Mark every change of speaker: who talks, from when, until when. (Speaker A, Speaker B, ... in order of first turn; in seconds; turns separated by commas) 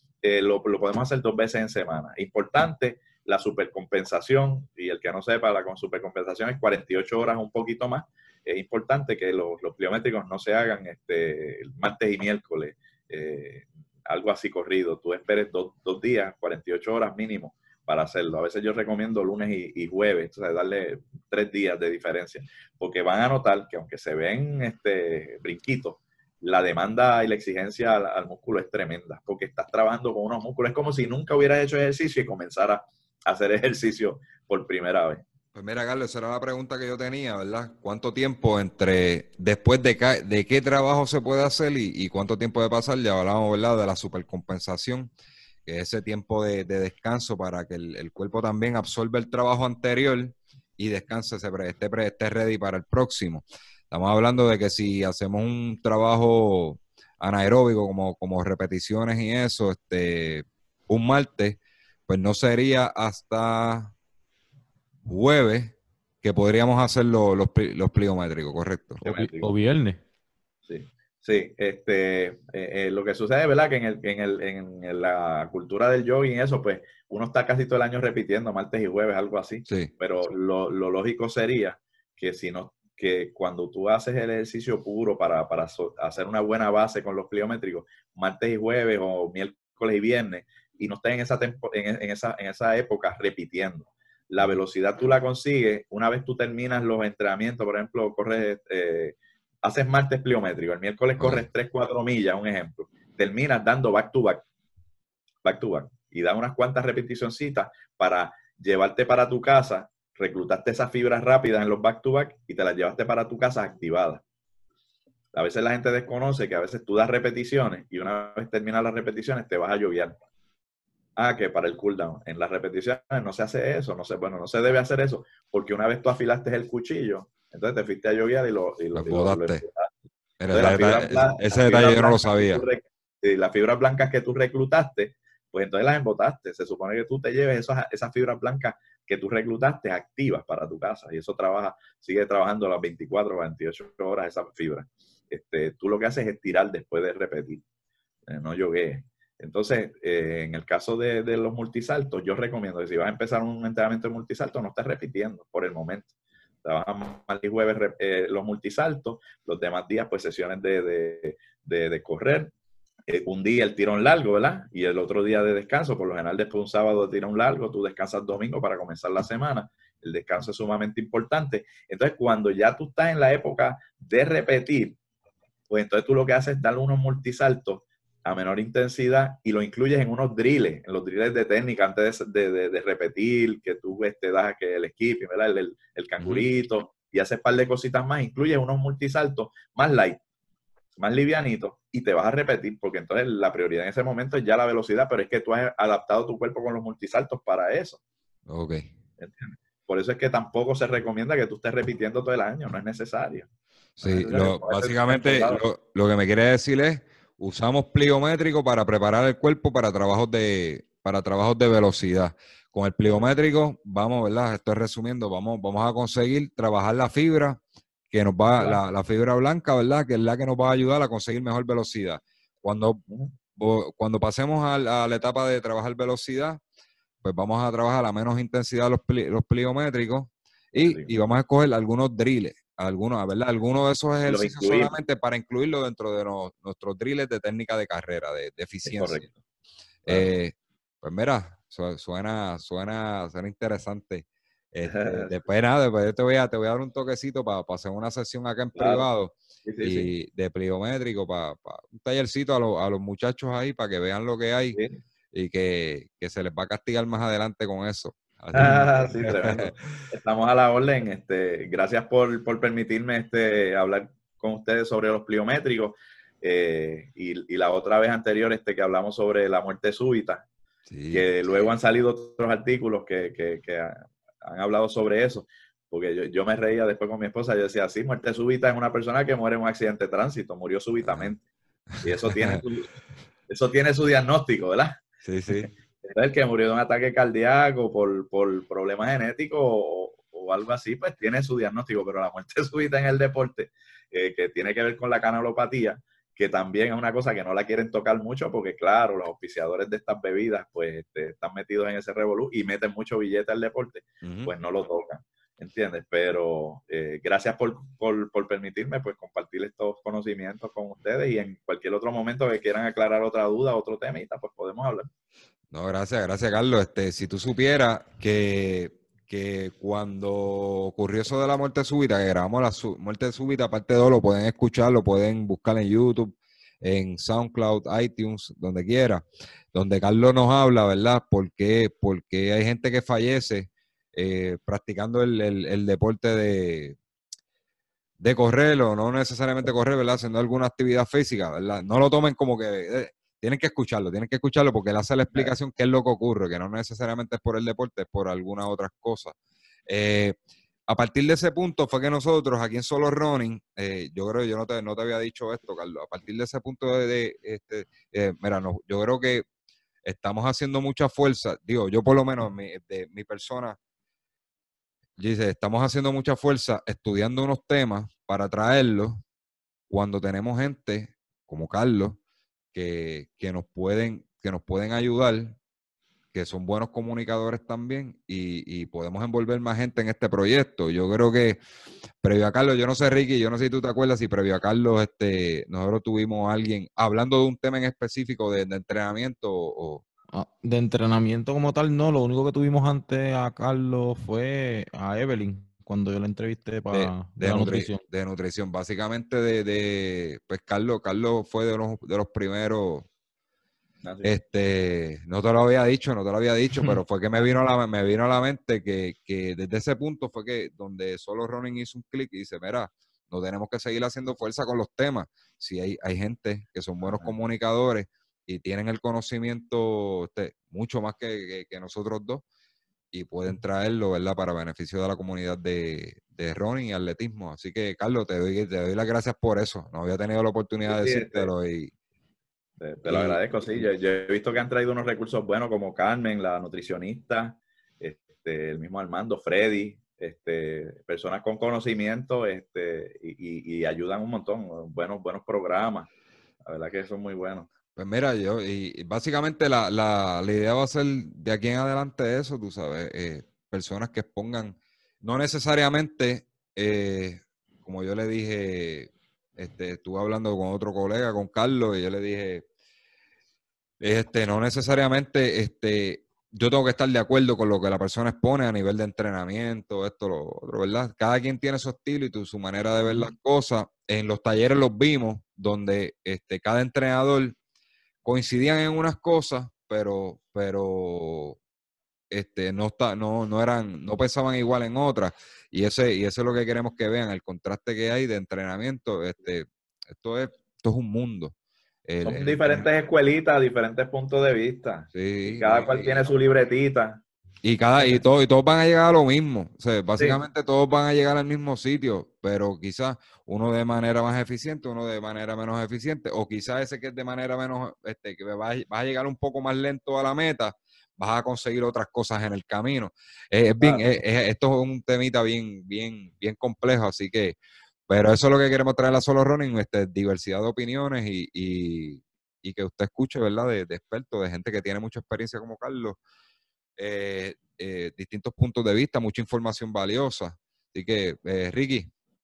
Speaker A: 0.2-35.2, Speaker B: 35.5-45.1, Speaker B: 45.6-63.9, Speaker B: 65.0-69.0, Speaker C: 69.0-70.0, Speaker A: 69.0-69.5, Speaker A: 70.7-104.5, Speaker B: 101.2-101.4, Speaker A: 105.4-114.2, Speaker A: 115.3-120.2, Speaker A: 121.2-129.9, Speaker B: 128.9-129.6, Speaker B: 130.4-132.6, Speaker A: 130.5-147.6, Speaker A: 148.3-156.1, Speaker A: 156.6-162.5, Speaker A: 163.1-175.0, Speaker A: 175.7-190.2, Speaker B: 186.2-186.5, Speaker A: 191.0-198.0, Speaker B: 198.5-198.9, Speaker A: 199.2-203.5, Speaker B: 204.0-226.6, Speaker A: 204.0-205.6, Speaker A: 218.6-218.8, Speaker A: 223.1-223.3, Speaker B: 227.2-239.2, Speaker A: 230.7-231.1, Speaker A: 234.3-234.9, Speaker A: 238.9-239.4, Speaker B: 240.1-254.8, Speaker A: 244.9-245.4, Speaker A: 248.7-249.1, Speaker A: 249.6-250.1, Speaker A: 254.7-255.0, Speaker B: 255.3-259.9, Speaker A: 258.5-270.4, Speaker B: 270.9-271.3, Speaker A: 271.1-281.4, Speaker B: 281.0-281.3, Speaker B: 281.9-282.6, Speaker A: 282.0-282.9, Speaker A: 283.5-315.1, Speaker B: 285.2-285.7, Speaker B: 304.2-304.5, Speaker B: 315.7-337.0, Speaker B: 338.2-349.3, Speaker B: 349.9-350.4, Speaker B: 350.9-359.4, Speaker B: 360.0-363.8, Speaker B: 365.2-369.2, Speaker B: 369.9-372.2, Speaker B: 372.7-375.6, Speaker B: 376.3-381.6, Speaker B: 382.2-390.0, Speaker C: 390.3-398.0, Speaker B: 396.9-403.1, Speaker A: 404.0-404.4, Speaker B: 404.2-422.4, Speaker A: 417.0-417.3, Speaker B: 423.1-431.9, Speaker A: 430.9-431.5, Speaker A: 432.8-446.1, Speaker B: 433.1-433.4, Speaker A: 446.6-447.7, Speaker B: 447.9-462.6, Speaker B: 464.0-477.6, Speaker B: 478.2-481.6, Speaker B: 482.3-491.6, Speaker B: 492.1-492.9, Speaker A: 492.2-497.2, Speaker B: 495.1-496.2, Speaker B: 497.6-517.6, Speaker A: 513.8-514.1, Speaker B: 518.1-526.2, Speaker B: 527.0-532.1